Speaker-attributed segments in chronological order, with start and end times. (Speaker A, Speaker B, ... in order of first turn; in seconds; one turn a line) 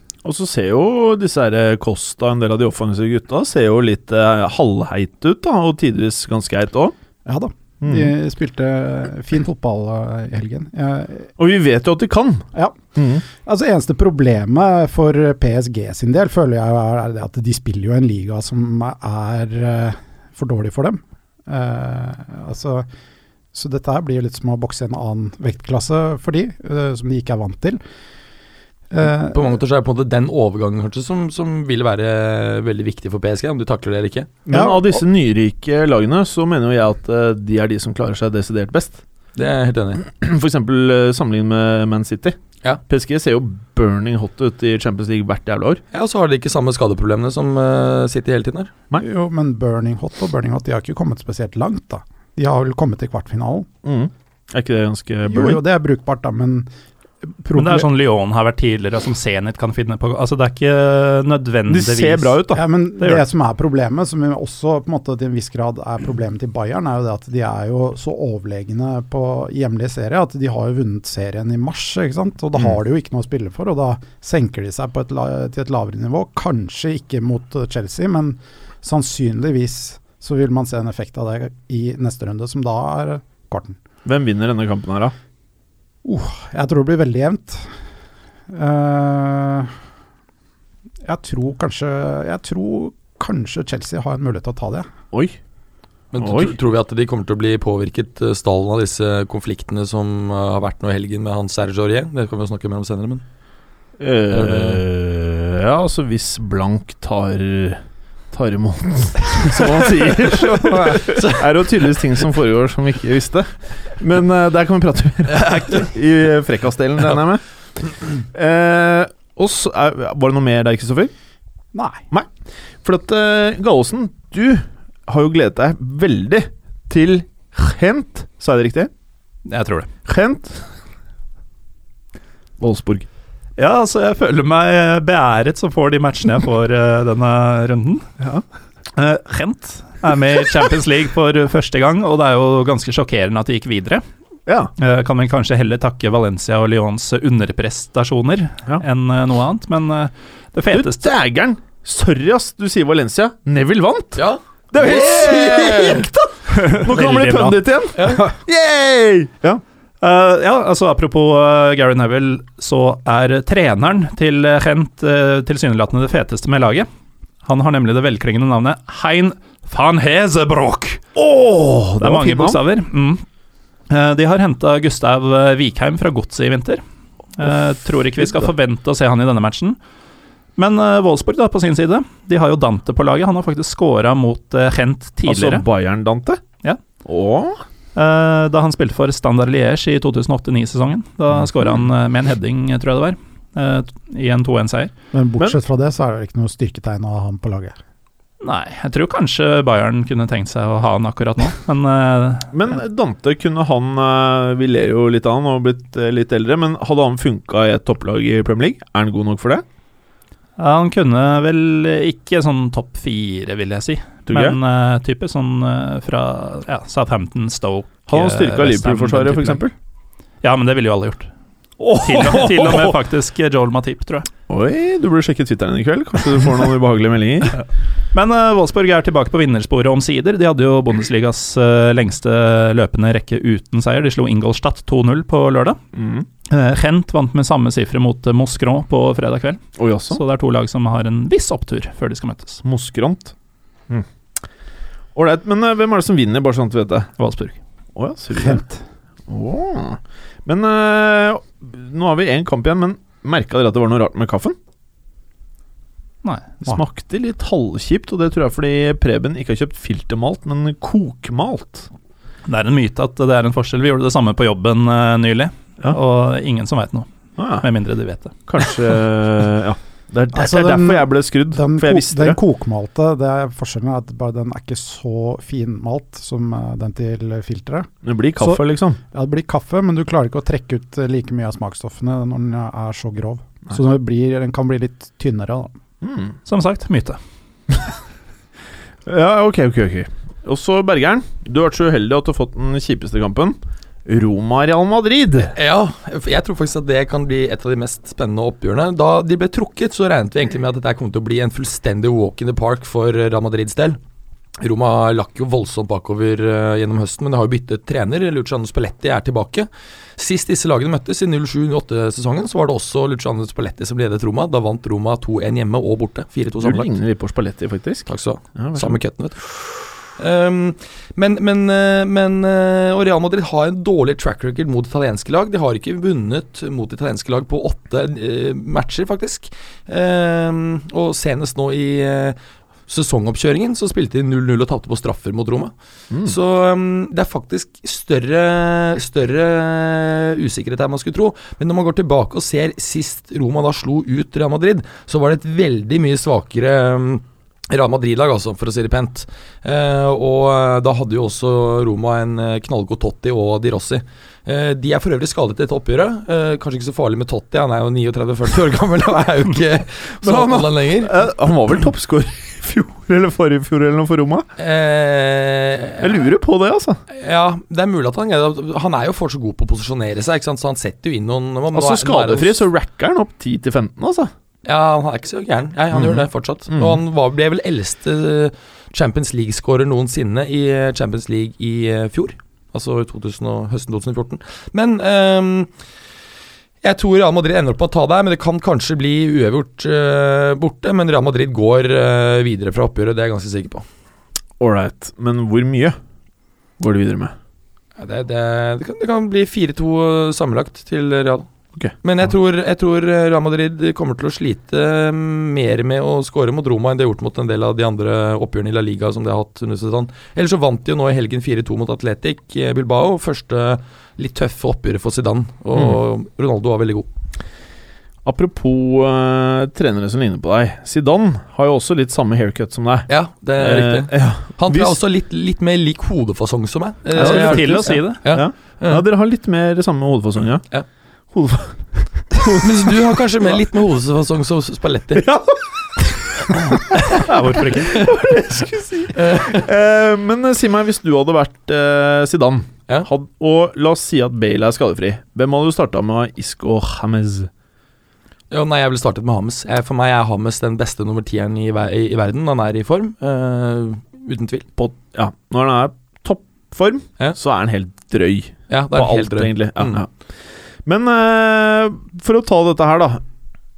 Speaker A: 0.2-6.9
Speaker B: 7.3-11.3
Speaker A: 7.8-8.1
Speaker A: 11.4-13.2
Speaker B: 12.5-22.9
Speaker B: 23.5-27.8
Speaker B: 28.9-29.6
Speaker C: 29.3-34.4
Speaker A: 34.5-39.0
Speaker B: 34.5-35.0
Speaker C: 39.4-40.0
Speaker A: 40.1-42.4
Speaker A: 42.9-45.8
Speaker C: 45.9-48.7
Speaker B: 49.0-53.7
Speaker A: 53.8-55.6
Speaker B: 55.3-56.7
Speaker B: 57.4-57.9
Speaker D: 57.5-62.4
Speaker A: 61.7-62.6
Speaker B: 62.5-83.8
Speaker A: 84.0-85.1
Speaker B: 86.0-87.7
Speaker B: 88.5-89.7
Speaker B: 91.1-94.9
Speaker A: 95.1-95.4
Speaker C: 96.1-103.2
Speaker A: 96.2-96.5
Speaker A: 104.0-107.8
Speaker C: 104.3-104.8
Speaker A: 108.3-117.5
Speaker C: 110.9-111.4
Speaker A: 118.1-121.1
Speaker B: 121.7-122.0
Speaker A: 122.8-128.9
Speaker D: 129.5-129.9
Speaker A: 130.1-130.7
Speaker A: 132.6-133.1
Speaker D: 133.6-138.1
Speaker D: 139.0-144.0
Speaker D: 144.8-151.1
Speaker A: 150.7-159.6
Speaker C: 154.2-156.1
Speaker D: 156.5-157.6
Speaker C: 157.9-158.2
Speaker D: 160.0-166.9
Speaker D: 167.4-171.0
Speaker A: 171.2-172.6
Speaker D: 172.0-173.2
Speaker D: 173.9-176.8
Speaker D: 177.4-179.8
Speaker A: 178.2-178.5
Speaker D: 180.6-185.7
Speaker A: 185.2-186.4
Speaker A: 187.0-187.6
Speaker D: 187.9-194.9
Speaker A: 191.3-191.8
Speaker B: 195.1-197.8
Speaker D: 198.4-202.5
Speaker A: 202.5-209.7
Speaker D: 210.6-219.6
Speaker A: 214.3-214.6
Speaker A: 218.1-219.7
Speaker D: 220.4-221.3
Speaker A: 221.8-223.0
Speaker D: 222.0-224.3
Speaker A: 224.5-227.6
Speaker D: 228.1-235.8
Speaker A: 235.9-236.3
Speaker D: 236.5-242.6
Speaker A: 239.8-240.2
Speaker A: 242.6-243.3
Speaker A: 243.9-244.4
Speaker A: 245.2-247.1
Speaker D: 247.2-247.6
Speaker A: 247.9-248.6
Speaker B: 248.4-248.8
Speaker A: 249.3-254.6
Speaker A: 256.6-261.9
Speaker D: 262.5-268.4
Speaker A: 267.4-267.7
Speaker A: 268.5-272.4
Speaker B: 270.3-285.8
Speaker A: 278.1-279.0
Speaker A: 286.0-286.4
Speaker D: 286.5-287.2
Speaker A: 289.1-295.6
Speaker C: 295.5-304.0
Speaker C: 304.6-316.9
Speaker A: 316.6-319.0
Speaker C: 318.1-361.1
Speaker A: 336.1-336.4
Speaker A: 360.2-364.5
Speaker C: 364.6-366.2
Speaker A: 366.0-367.0
Speaker C: 367.1-372.6
Speaker A: 371.7-374.3
Speaker C: 374.6-385.7
Speaker A: 375.9-377.0
Speaker C: 386.8-393.9
Speaker A: 394.6-396.0
Speaker A: 396.8-397.3
Speaker C: 398.0-401.5
Speaker C: 402.0-417.1
Speaker A: 415.7-416.0
Speaker A: 418.2-425.0
Speaker C: 423.1-429.0
Speaker A: 427.1-430.6
Speaker D: 427.2-428.2
Speaker A: 431.3-432.9
Speaker C: 432.5-435.2
Speaker A: 435.1-435.6
Speaker A: 436.5-447.5
Speaker D: 437.1-438.0
Speaker C: 439.1-439.7
Speaker C: 448.5-454.7
Speaker A: 454.8-460.2
Speaker C: 458.7-460.0
Speaker A: 460.8-463.2